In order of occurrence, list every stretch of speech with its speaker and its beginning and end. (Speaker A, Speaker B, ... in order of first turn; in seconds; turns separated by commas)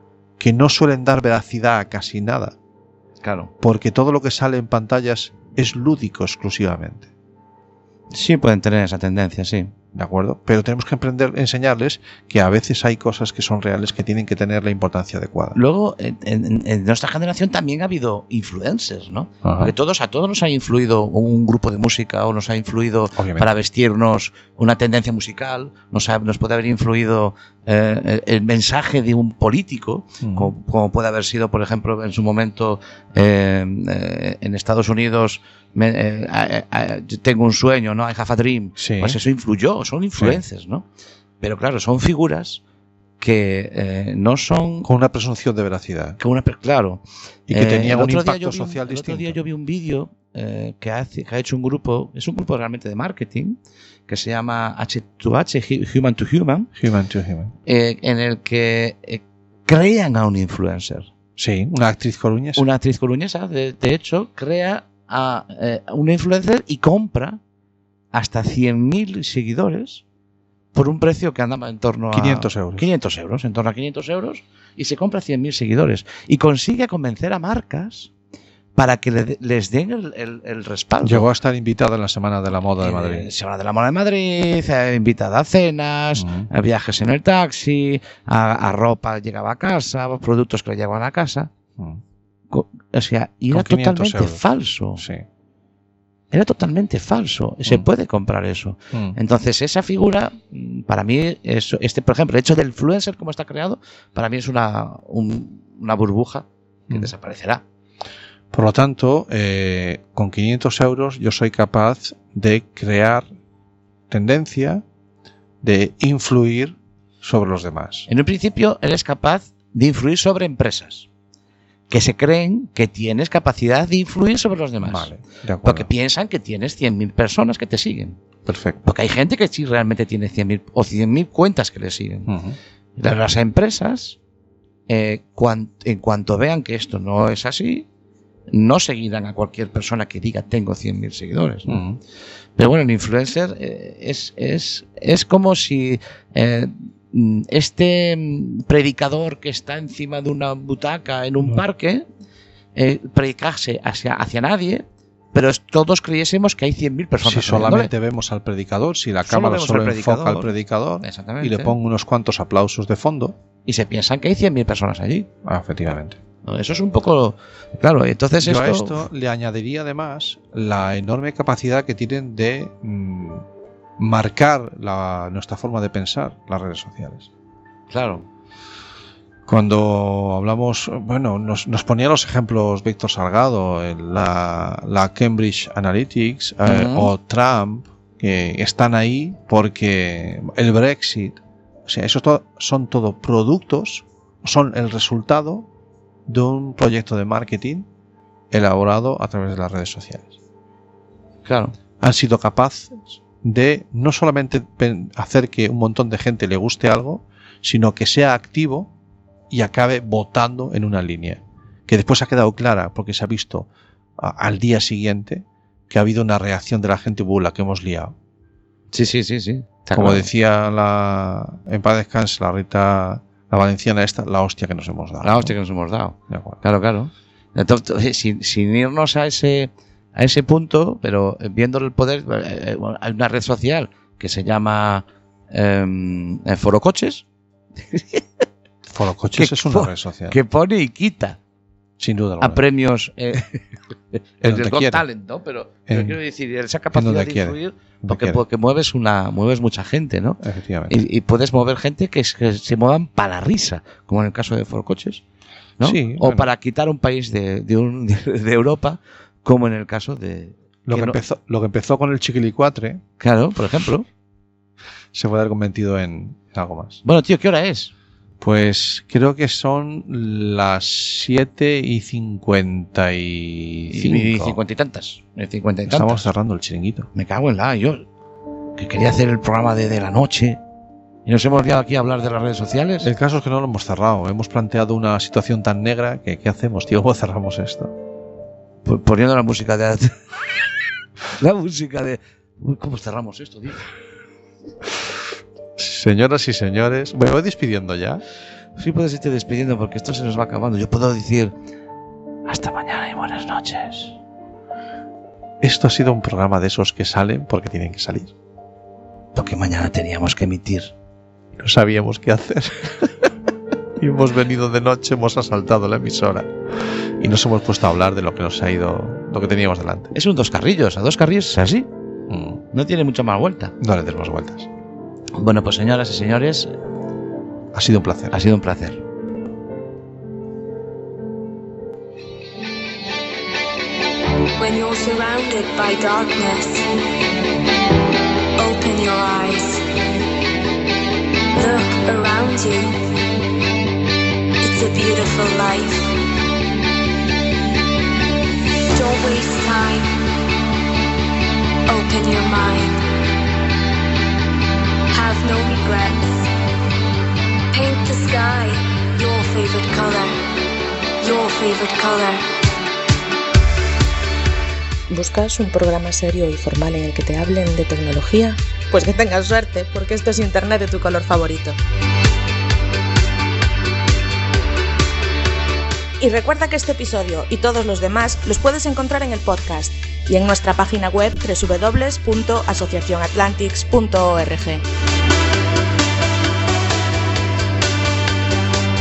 Speaker A: 0.4-2.5, Speaker B: 3.2-3.5, Speaker A: 3.6-7.1, Speaker B: 8.1-9.7, Speaker A: 9.9-15.6, Speaker B: 15.5-40.9, Speaker A: 19.4-19.7, Speaker A: 23.1-23.5, Speaker A: 30.2-30.5, Speaker A: 38.8-39.2, Speaker A: 40.1-40.4, Speaker B: 41.4-42.6, Speaker B: 43.2-44.9, Speaker A: 44.8-46.2, Speaker B: 46.2-56.7, Speaker A: 47.5-49.4, Speaker A: 56.7-57.5, Speaker B: 57.6-61.1, Speaker A: 61.4-62.6, Speaker B: 62.5-67.4, Speaker B: 68.1-70.0, Speaker B: 70.7-78.1, Speaker A: 72.1-72.9, Speaker B: 78.8-81.3, Speaker A: 81.0-83.3, Speaker B: 82.8-91.5, Speaker A: 86.2-86.5, Speaker B: 92.5-95.0, Speaker A: 93.5-94.4, Speaker A: 95.0-95.2, Speaker B: 96.3-107.6, Speaker A: 108.5-113.3, Speaker A: 114.1-114.8, Speaker A: 115.6-118.1, Speaker B: 118.1-121.0, Speaker B: 121.9-125.1, Speaker A: 124.8-125.9, Speaker B: 125.6-128.2, Speaker A: 128.4-128.8, Speaker B: 128.8-132.3, Speaker A: 132.3-132.6, Speaker B: 133.0-134.2, Speaker B: 134.9-137.9, Speaker B: 138.5-141.8, Speaker A: 141.7-142.0, Speaker B: 142.6-152.0, Speaker B: 152.7-157.9, Speaker A: 157.2-163.4, Speaker B: 159.2-161.8, Speaker B: 163.7-165.3, Speaker A: 165.4-166.2, Speaker B: 166.4-169.1, Speaker A: 168.4-173.4, Speaker A: 174.0-177.3, Speaker B: 177.9-178.2, Speaker A: 179.4-195.7, Speaker B: 186.6-187.1, Speaker A: 196.3-197.9, Speaker A: 198.5-200.4, Speaker B: 201.4-201.7, Speaker A: 202.0-208.9, Speaker A: 209.5-218.1, Speaker B: 218.9-220.3, Speaker A: 219.9-225.5, Speaker B: 225.2-237.2, Speaker A: 226.3-226.6, Speaker B: 237.9-238.4, Speaker A: 238.9-240.4, Speaker B: 239.3-241.4, Speaker A: 242.0-242.6, Speaker B: 242.4-243.6, Speaker B: 244.1-255.2, Speaker A: 244.4-245.0, Speaker A: 245.9-246.2, Speaker A: 246.9-248.4, Speaker A: 250.4-251.0, Speaker B: 255.8-261.2, Speaker A: 255.8-256.5, Speaker A: 260.9-263.0, Speaker B: 263.2-264.1, Speaker A: 265.1-267.0, Speaker B: 267.0-267.9, Speaker A: 268.4-274.6, Speaker B: 273.9-276.3, Speaker A: 275.9-277.1, Speaker B: 277.1-278.0, Speaker B: 278.8-280.6, Speaker B: 281.2-283.1, Speaker A: 283.0-287.9, Speaker B: 288.8-290.2, Speaker B: 291.2-293.9, Speaker A: 295.8-298.2, Speaker B: 298.8-301.5, Speaker B: 302.5-304.2, Speaker A: 305.6-308.3, Speaker B: 309.3-310.9, Speaker A: 311.6-313.3, Speaker A: 314.0-320.1, Speaker B: 320.1-321.9, Speaker A: 322.3-322.6, Speaker B: 322.7-323.7, Speaker A: 323.8-324.7, Speaker B: 325.3-326.7, Speaker A: 327.7-328.3, Speaker B: 328.3-329.0, Speaker C: 334.6-336.9, Speaker C: 338.6-339.8, Speaker C: 341.5-343.0, Speaker C: 344.6-346.1, Speaker C: 348.9-350.1, Speaker C: 351.9-353.0, Speaker C: 355.1-356.5, Speaker C: 357.7-360.4, Speaker C: 361.2-362.4, Speaker D: 365.1-371.8, Speaker D: 376.2-384.8